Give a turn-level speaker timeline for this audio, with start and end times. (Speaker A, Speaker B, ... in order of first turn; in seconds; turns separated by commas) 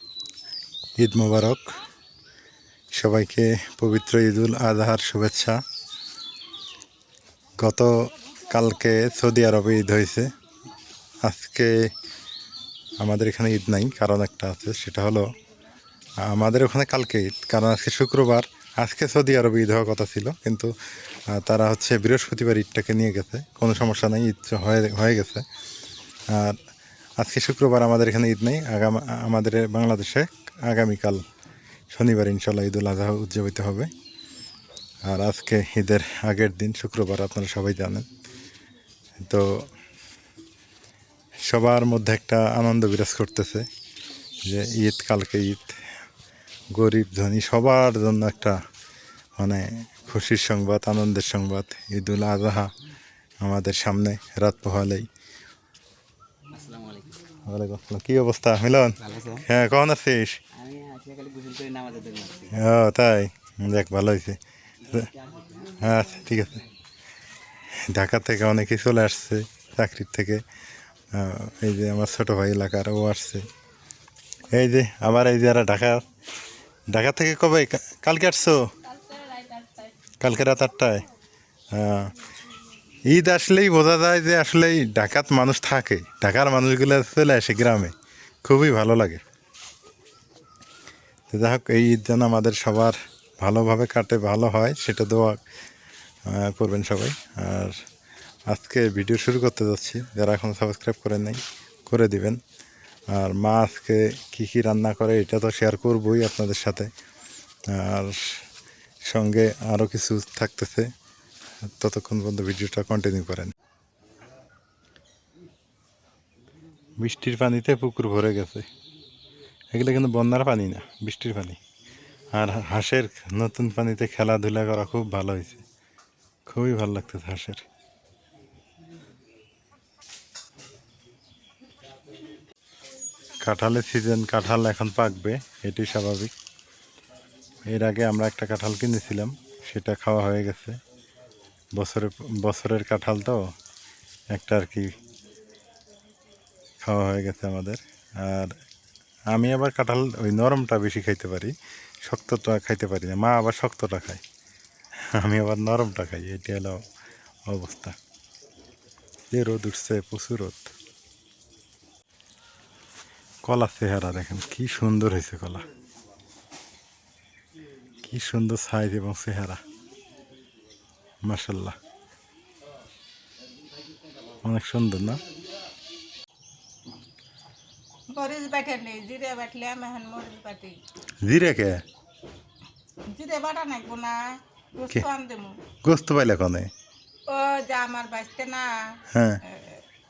Speaker A: 1.0-1.8, Speaker A: 2.9-5.6, Speaker A: 7.6-10.3, Speaker A: 11.2-11.8, Speaker A: 13.0-15.3, Speaker A: 16.2-20.7, Speaker A: 21.3-25.4, Speaker A: 26.3-26.6, Speaker A: 27.2-31.2, Speaker A: 31.9-33.9, Speaker A: 35.0-38.1, Speaker A: 39.2-39.7, Speaker A: 41.4-43.7, Speaker A: 44.4-45.9, Speaker A: 46.7-48.6, Speaker A: 49.4-52.7, Speaker A: 53.4-55.1, Speaker B: 56.5-57.2, Speaker A: 57.5-60.4, Speaker B: 59.0-59.5, Speaker B: 60.5-62.5, Speaker A: 62.5-65.1, Speaker B: 64.9-65.8, Speaker A: 65.7-66.6, Speaker A: 67.7-70.4, Speaker A: 71.1-73.5, Speaker A: 74.5-76.0, Speaker A: 76.9-78.7, Speaker C: 79.1-79.7, Speaker A: 80.2-81.1, Speaker A: 81.7-82.2, Speaker A: 83.0-87.9, Speaker A: 88.5-89.2, Speaker A: 91.3-95.4, Speaker A: 96.3-97.8, Speaker A: 98.5-102.4, Speaker A: 103.1-106.9, Speaker A: 107.7-108.5, Speaker A: 109.0-110.9, Speaker A: 111.6-113.5, Speaker A: 117.0-118.7, Speaker A: 119.7-121.6, Speaker A: 122.3-125.7, Speaker A: 126.5-127.7, Speaker A: 133.4-136.3, Speaker A: 137.7-140.8, Speaker A: 141.8-143.4, Speaker A: 144.3-144.9, Speaker A: 146.8-148.6, Speaker A: 149.3-154.2, Speaker A: 155.0-156.8, Speaker A: 157.5-158.0, Speaker A: 159.3-160.7, Speaker A: 163.4-165.7, Speaker A: 168.0-169.6, Speaker A: 171.2-171.8, Speaker A: 174.4-175.2, Speaker C: 178.1-180.8, Speaker A: 181.2-181.8, Speaker C: 183.1-185.6, Speaker A: 185.8-186.7, Speaker C: 187.3-189.9, Speaker A: 189.1-189.4